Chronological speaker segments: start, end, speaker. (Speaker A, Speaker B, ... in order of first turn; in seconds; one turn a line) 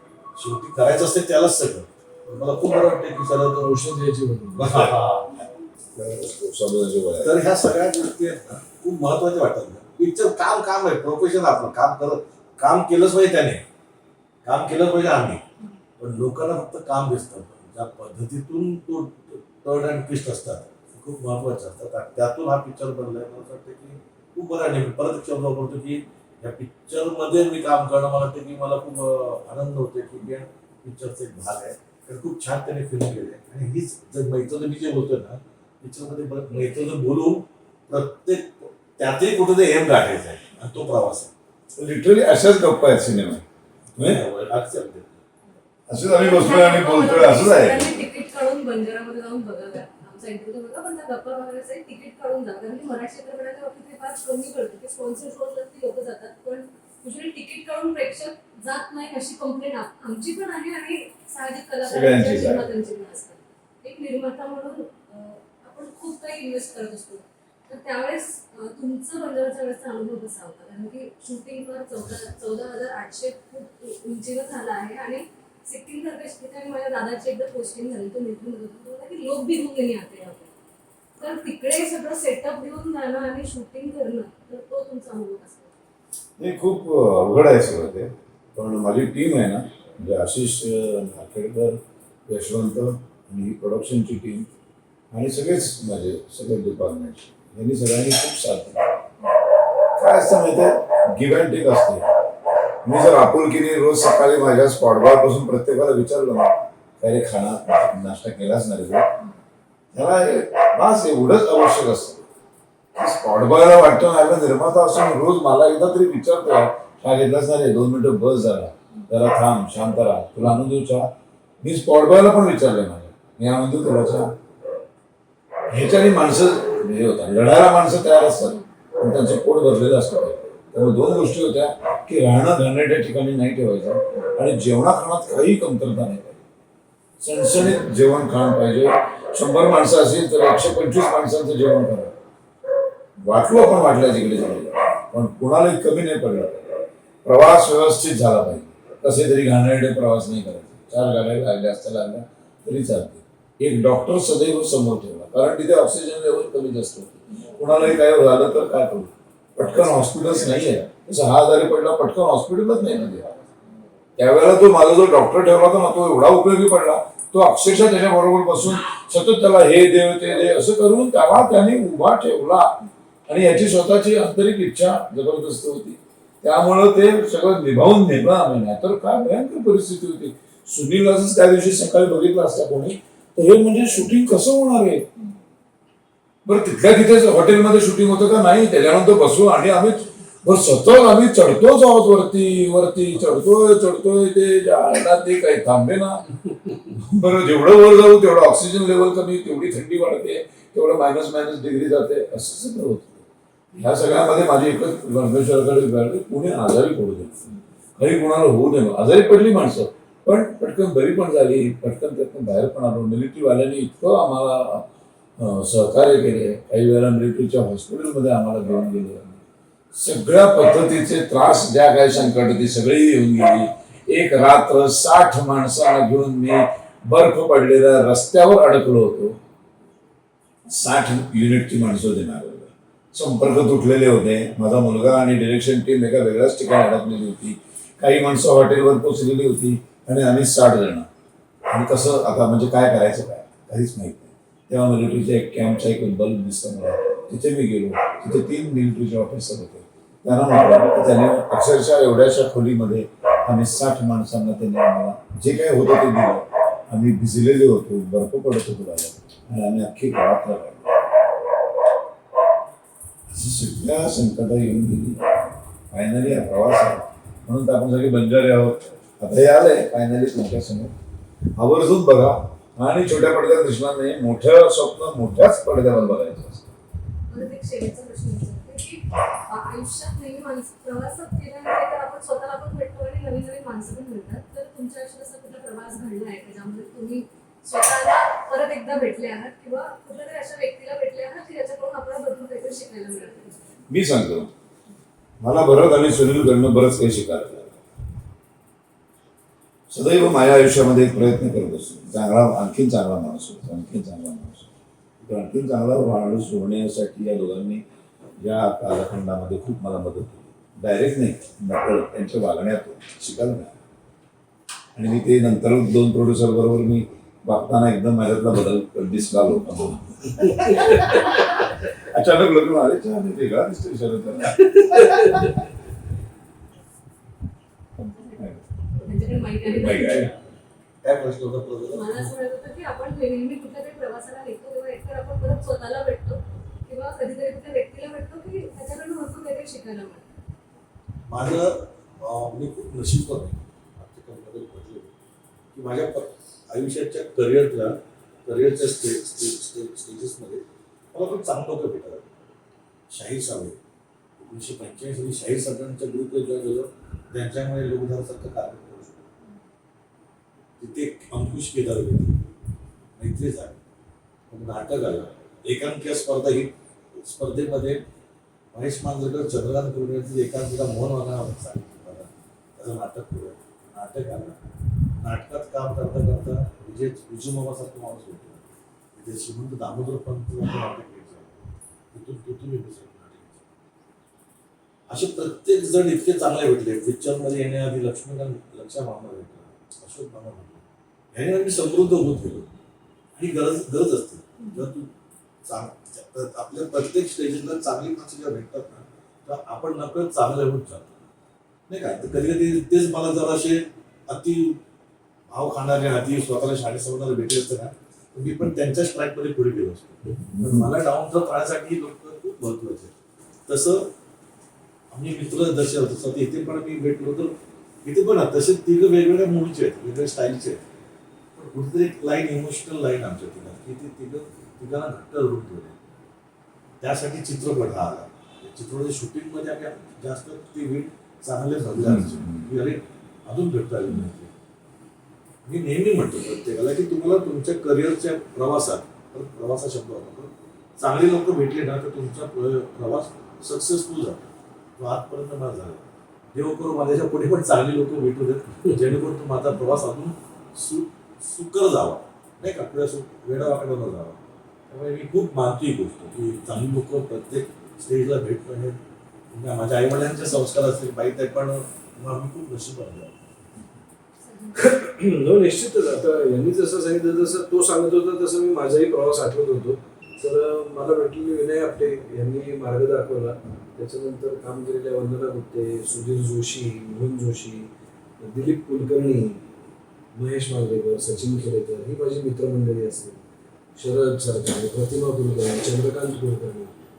Speaker A: 0.3-3.7
Speaker B: 3.6-4.7
Speaker A: 4.5-5.3
Speaker C: 5.9-7.4
Speaker A: 7.2-13.6
Speaker A: 14.4-15.4
Speaker A: 16.0-41.3
Speaker C: 41.8-43.4
Speaker A: 44.0-45.2
Speaker C: 45.9-48.0
Speaker D: 46.1-80.5
Speaker C: 61.8-62.7
Speaker D: 81.2-85.7
Speaker C: 86.4-94.5
Speaker C: 95.1-98.9
Speaker C: 100.0-102.1
Speaker C: 102.8-109.0
Speaker C: 109.9-112.2
Speaker C: 113.0-121.1
Speaker C: 121.6-124.3
Speaker C: 125.7-136.4
Speaker C: 137.2-142.2
Speaker C: 143.2-163.3
Speaker C: 164.2-185.1
Speaker C: 186.4-196.2
Speaker C: 196.9-214.9
Speaker C: 215.4-219.4
Speaker C: 219.9-229.3
Speaker C: 230.7-241.1
Speaker C: 241.7-261.2
Speaker C: 263.3-265.2
Speaker C: 265.9-270.9
Speaker C: 271.6-276.7
Speaker D: 277.3-293.6
Speaker C: 293.9-294.5
Speaker C: 295.4-297.8
Speaker C: 299.9-304.7
Speaker C: 305.2-307.8
Speaker C: 308.4-313.7
Speaker C: 314.9-325.5
Speaker B: 324.8-325.5
Speaker C: 328.2-328.6
Speaker D: 329.0-330.3
Speaker C: 329.6-330.3
Speaker A: 331.0-332.3
Speaker D: 331.9-340.2
Speaker A: 341.3-345.1
Speaker A: 345.7-352.3
Speaker A: 353.1-353.8
Speaker A: 354.4-359.2
Speaker A: 360.8-362.5
Speaker A: 363.2-363.8
Speaker A: 364.5-368.0
Speaker A: 368.7-374.6
Speaker A: 375.2-381.5
Speaker A: 382.1-383.7
Speaker A: 385.1-390.8
Speaker A: 391.3-392.7
Speaker A: 393.4-395.1
Speaker D: 394.6-394.9
Speaker A: 395.6-401.1
Speaker A: 401.9-404.8
Speaker A: 405.5-413.1
Speaker C: 410.5-410.9
Speaker A: 413.7-414.1
Speaker A: 415.1-420.8
Speaker A: 421.5-426.0
Speaker A: 427.0-434.5
Speaker C: 432.0-432.7
Speaker A: 435.6-459.0
Speaker A: 459.5-463.3
Speaker D: 464.4-464.9
Speaker B: 464.8-479.6
Speaker B: 480.3-483.4
Speaker B: 483.9-486.9